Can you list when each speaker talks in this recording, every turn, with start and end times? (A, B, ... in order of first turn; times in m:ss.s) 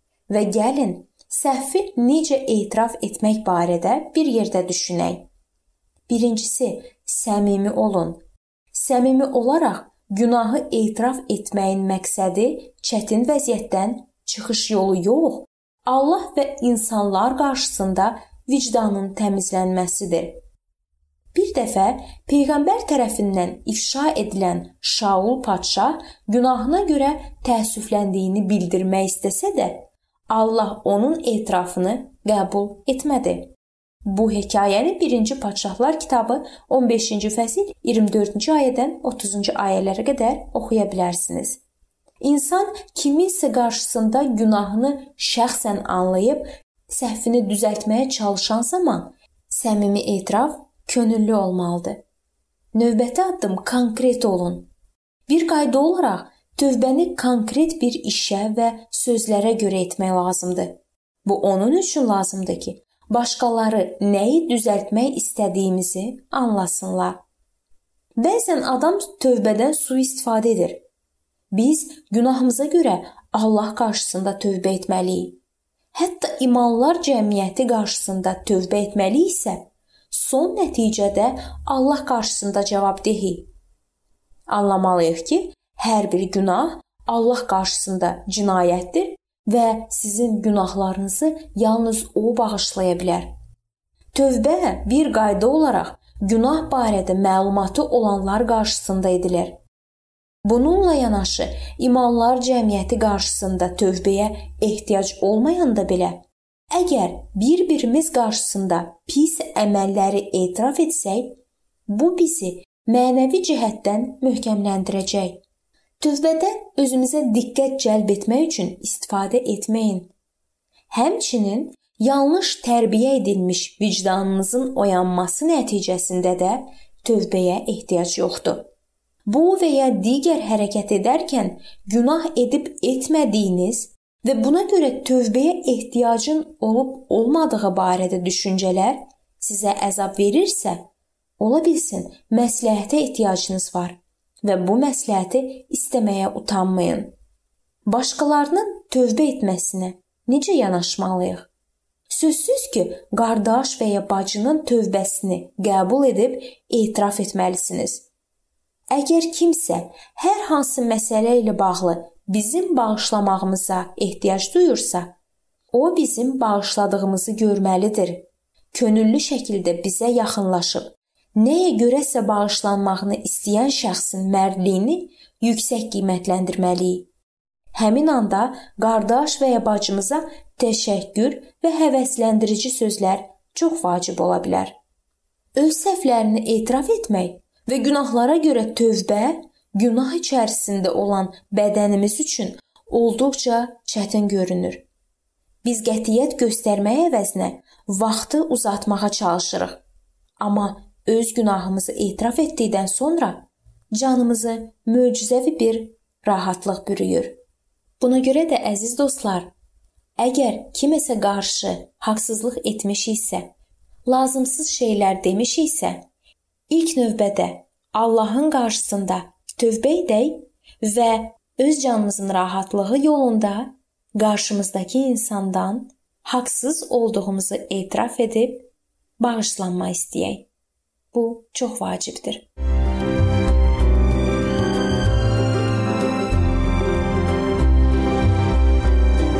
0:00.3-0:05.3 A
0:06.1-0:08.2 A
0:08.7-0:20.4 A
0:21.3-0:33.5 A
0:34.0-0:41.6 A
0:42.2-0:52.0 A
0:52.7-0:54.7 A
0:55.3-1:07.2 A
1:08.2-1:10.8 A
1:11.5-1:15.4 A
1:15.9-1:23.5 A
1:24.5-1:33.3 A
1:34.1-1:39.6 A
1:40.4-1:55.4 A
1:56.0-2:00.1 A
2:00.9-2:08.7 A
2:09.3-2:20.9 A
2:21.4-2:27.1 A
2:27.8-2:31.5 A
2:32.1-2:38.1 A
2:38.9-2:45.1 A
2:45.7-2:57.1 A
2:57.7-3:04.8 A
3:05.6-3:14.8 A
3:15.6-3:19.8 A
3:20.4-3:27.4 A
3:28.0-3:29.5 A
3:30.2-3:33.5 A
3:34.0-3:36.1 A
3:36.7-3:50.5 A
3:51.1-3:52.4 A